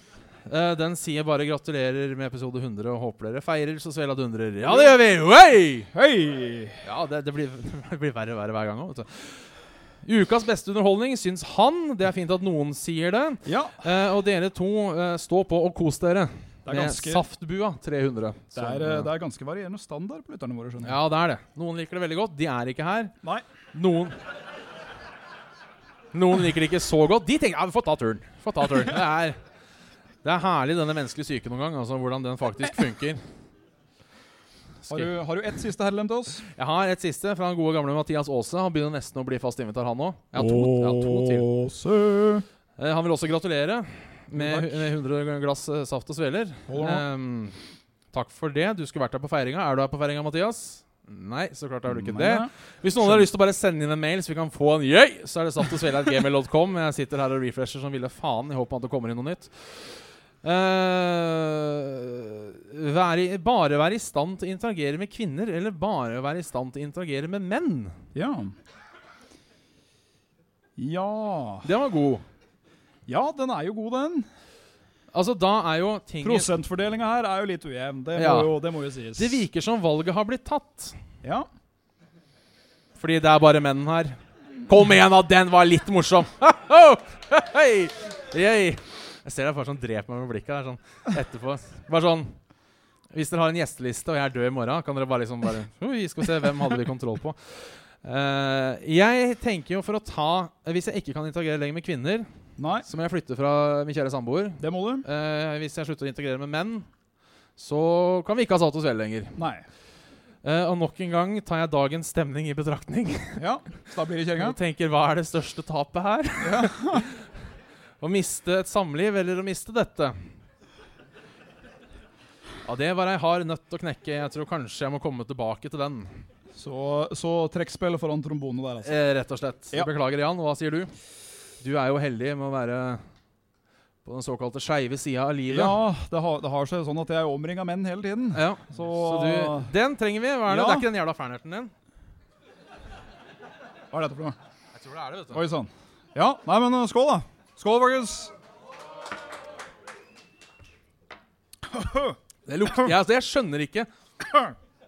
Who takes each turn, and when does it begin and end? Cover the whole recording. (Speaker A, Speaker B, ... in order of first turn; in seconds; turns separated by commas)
Speaker A: 0.5-5.9, Speaker B: 4.7-5.0, Speaker B: 5.9-6.8, Speaker A: 6.8-9.4, Speaker A: 10.0-19.1, Speaker B: 13.4-13.8, Speaker B: 16.7-17.2, Speaker B: 18.5-21.0, Speaker A: 20.8-23.1, Speaker A: 23.7-24.2, Speaker A: 26.1-29.4, Speaker A: 30.2-33.2, Speaker A: 34.8-35.1, Speaker B: 34.9-36.5, Speaker A: 36.5-41.5, Speaker B: 40.3-42.5, Speaker A: 42.8-47.6, Speaker B: 44.3-44.9, Speaker B: 46.7-47.0, Speaker A: 48.1-68.0, Speaker B: 51.9-53.3, Speaker B: 68.2-68.6, Speaker B: 70.8-71.7, Speaker A: 71.6-72.2, Speaker B: 73.1-74.3, Speaker A: 75.1-76.5, Speaker B: 76.2-79.4, Speaker A: 78.2-78.6, Speaker A: 79.2-81.0, Speaker B: 81.2-81.5, Speaker A: 83.0-92.4, Speaker A: 93.1-102.3, Speaker B: 102.6-102.9, Speaker A: 102.8-106.9, Speaker B: 104.6-105.1, Speaker A: 107.6-109.4, Speaker B: 109.4-109.7, Speaker A: 110.4-113.4, Speaker B: 113.4-114.6, Speaker A: 114.4-117.2, Speaker B: 116.4-117.1, Speaker A: 118.0-120.2, Speaker A: 122.7-126.2, Speaker B: 126.5-128.9, Speaker A: 128.8-130.9, Speaker A: 131.6-133.0, Speaker A: 134.1-135.8, Speaker B: 135.5-139.7, Speaker A: 138.3-141.7, Speaker B: 140.5-140.9, Speaker B: 143.9-144.4, Speaker A: 144.7-145.4, Speaker B: 145.3-148.3, Speaker B: 151.7-152.9, Speaker A: 152.5-153.9, Speaker B: 154.3-154.5